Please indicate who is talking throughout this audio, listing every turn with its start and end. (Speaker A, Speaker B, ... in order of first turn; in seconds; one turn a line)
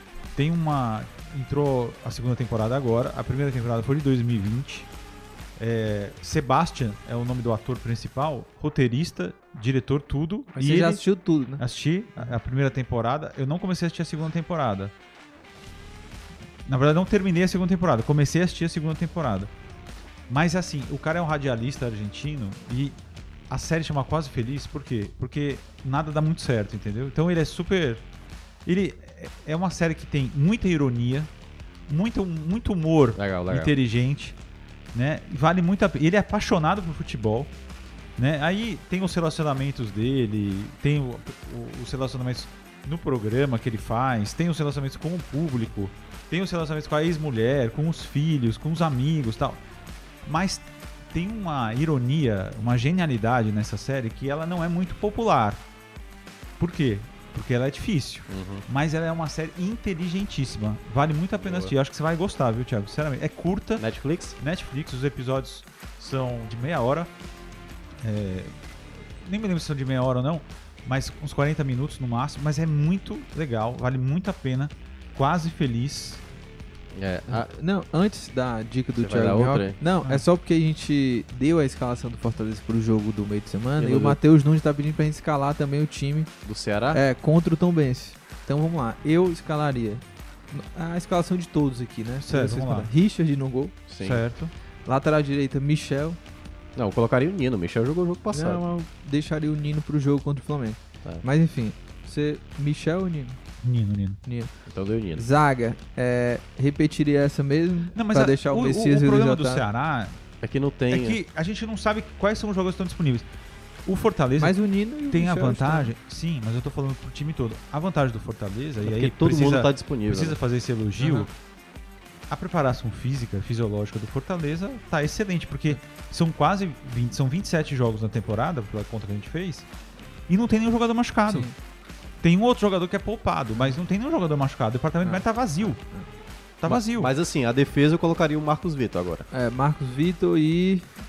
Speaker A: 0.3-4.9
Speaker A: 5.6-11.0
Speaker B: 10.5-11.6
Speaker A: 11.6-14.9
Speaker A: 16.6-19.5
Speaker A: 20.3-23.0
Speaker A: 23.5-28.0
Speaker A: 28.6-31.3
Speaker A: 31.9-34.4
Speaker C: 33.2-33.7
Speaker A: 34.9-37.5
Speaker A: 38.2-49.6
Speaker A: 50.2-55.6
Speaker A: 56.6-63.9
Speaker C: 58.3-58.6
Speaker C: 61.4-61.7
Speaker C: 63.8-64.4
Speaker A: 64.4-67.1
Speaker A: 68.0-68.5
Speaker A: 69.2-76.2
Speaker C: 76.9-77.5
Speaker B: 77.3-86.3
Speaker C: 79.0-79.8
Speaker C: 83.8-84.2
Speaker C: 86.4-87.0
Speaker B: 86.9-93.8
Speaker A: 92.2-92.9
Speaker C: 93.9-94.2
Speaker A: 94.0-94.5
Speaker B: 94.8-96.2
Speaker C: 96.8-98.6
Speaker B: 98.3-103.4
Speaker A: 103.6-104.2
Speaker B: 104.2-104.5
Speaker C: 104.7-105.2
Speaker B: 105.2-109.6
Speaker A: 107.9-110.2
Speaker C: 110.4-111.2
Speaker A: 110.9-113.2
Speaker A: 113.8-121.3
Speaker B: 114.4-115.9
Speaker C: 118.8-120.3
Speaker B: 121.0-121.3
Speaker A: 122.3-129.7
Speaker A: 130.3-131.5
Speaker B: 131.3-131.5
Speaker A: 132.2-135.8
Speaker B: 135.0-136.1
Speaker A: 136.6-137.1
Speaker C: 136.7-139.2
Speaker B: 139.3-140.9